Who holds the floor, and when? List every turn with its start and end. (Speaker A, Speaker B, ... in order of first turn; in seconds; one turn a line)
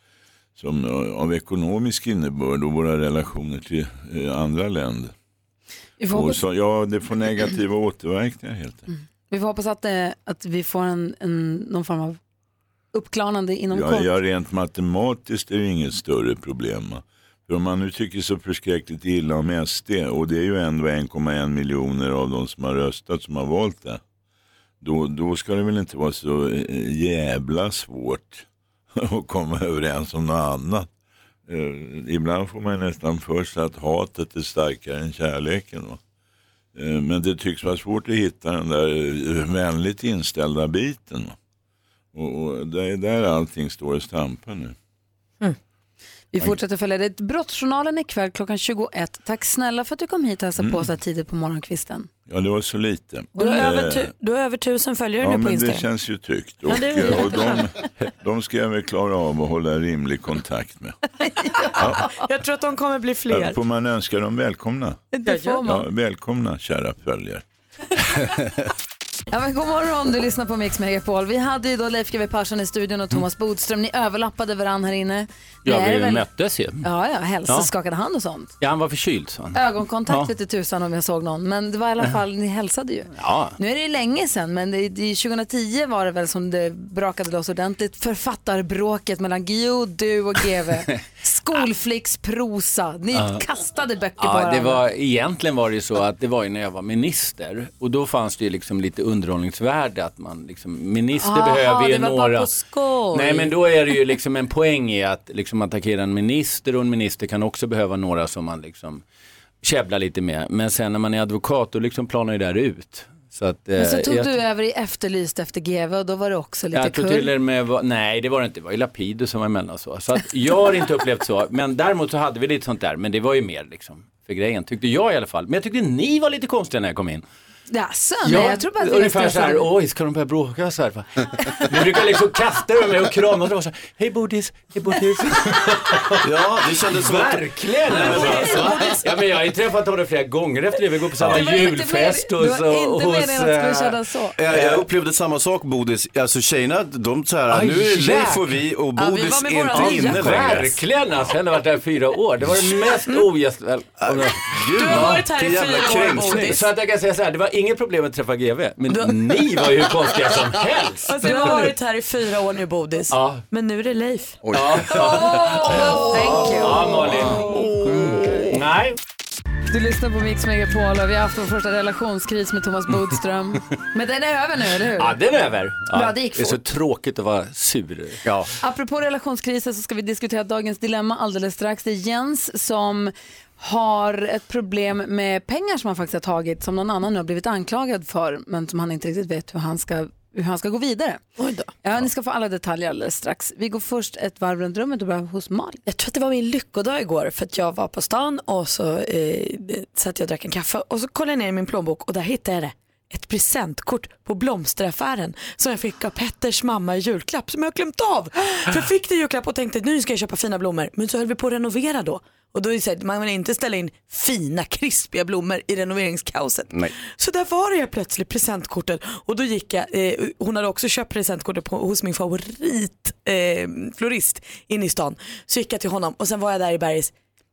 Speaker A: 0.6-5.1
Speaker B: 6.0-6.4
Speaker A: 6.1-8.9
Speaker B: 9.3-12.2
Speaker B: 12.9-14.1
Speaker A: 13.7-24.0
Speaker A: 24.8-30.9
Speaker A: 31.5-36.0
Speaker A: 36.7-41.4
Speaker A: 42.1-44.7
Speaker B: 46.3-52.1
Speaker A: 50.6-50.8
Speaker A: 52.3-54.1
Speaker B: 53.4-53.6
Speaker C: 53.4-55.9
Speaker A: 55.2-61.0
Speaker C: 56.7-57.6
Speaker C: 61.5-63.6
Speaker A: 61.8-62.1
Speaker A: 63.3-65.0
Speaker B: 65.1-65.8
Speaker C: 65.2-65.6
Speaker A: 65.6-67.4
Speaker B: 69.3-76.2
Speaker D: 75.6-76.9
Speaker B: 76.8-78.5
Speaker D: 77.5-77.7
Speaker D: 78.6-79.6
Speaker B: 79.5-94.8
Speaker D: 83.1-83.6
Speaker D: 93.1-93.4
Speaker D: 94.2-102.6
Speaker C: 101.2-103.5
Speaker D: 103.1-109.0
Speaker D: 109.6-114.4
Speaker B: 113.8-117.3
Speaker D: 116.7-127.2
Speaker B: 127.7-129.7
Speaker D: 128.2-144.8
Speaker E: 136.2-138.5
Speaker C: 137.9-139.0
Speaker B: 141.3-144.4
Speaker E: 144.3-150.8
Speaker D: 147.5-148.6
Speaker C: 148.9-150.5
Speaker D: 149.7-161.7
Speaker C: 152.8-153.2
Speaker E: 154.0-156.5
Speaker C: 154.7-156.7
Speaker C: 158.9-159.6
Speaker C: 161.0-166.4
Speaker B: 161.2-161.7
Speaker D: 163.1-163.4
Speaker D: 164.5-169.0
Speaker B: 165.0-168.5
Speaker B: 169.7-175.2
Speaker D: 174.9-178.2
Speaker B: 175.9-176.6
Speaker B: 178.6-191.2
Speaker C: 191.4-191.7
Speaker B: 191.8-195.8
Speaker C: 195.8-227.1